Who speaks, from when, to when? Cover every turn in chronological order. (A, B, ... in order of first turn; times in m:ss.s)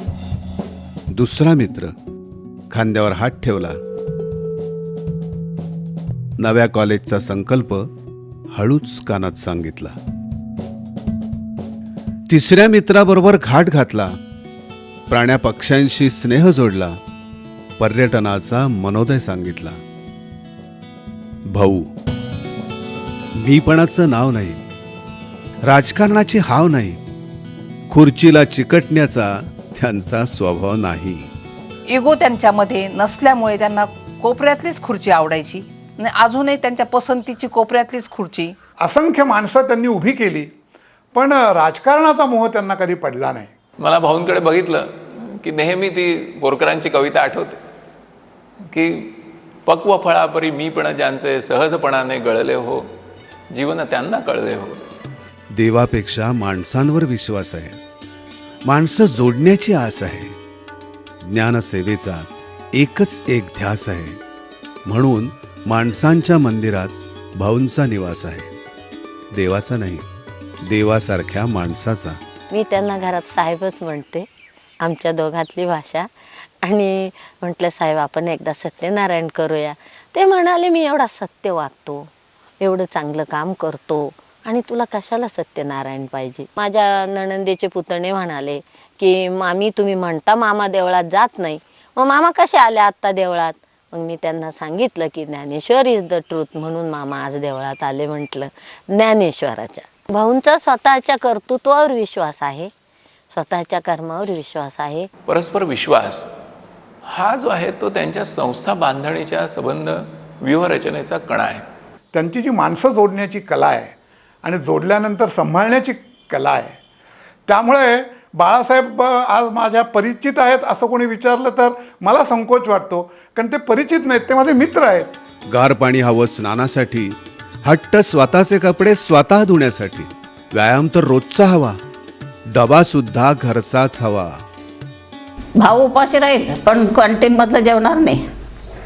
0:01.1-0:01.9 A
0:02.7-0:03.8 A
0:06.4-0:07.9 A
0:08.5-0:09.9 A
0:12.3-0:14.1 A
0:15.1-0:17.0 A
0:17.8-0:19.8 A
0:21.5-0:21.9 A
0:23.4-0:24.6 A
0:25.6-0:27.0 A
0:27.9-0:31.3 A
0:31.9-0:38.6 B
0:38.8-0:40.5 C
0:41.1-0:43.5 C
0:43.8-0:47.6 D
0:48.7-0:52.8 D
0:53.5-0:54.8 D
0:55.5-0:57.8 A
0:58.6-1:00.3 A
1:01.3-1:04.2 A
1:04.8-1:08.5 A
1:09.3-1:10.0 A
1:10.6-1:12.2 A
1:12.5-1:14.3 E
1:14.8-1:16.1 E
1:16.6-1:42.7 E
1:43.3-1:45.1 E
1:45.3-1:46.3 D
1:47.0-1:51.6 D
1:52.1-1:56.8 C
1:57.5-2:05.1 C
2:05.5-2:11.8 A
2:12.5-2:14.4 A
2:15.6-2:18.2 F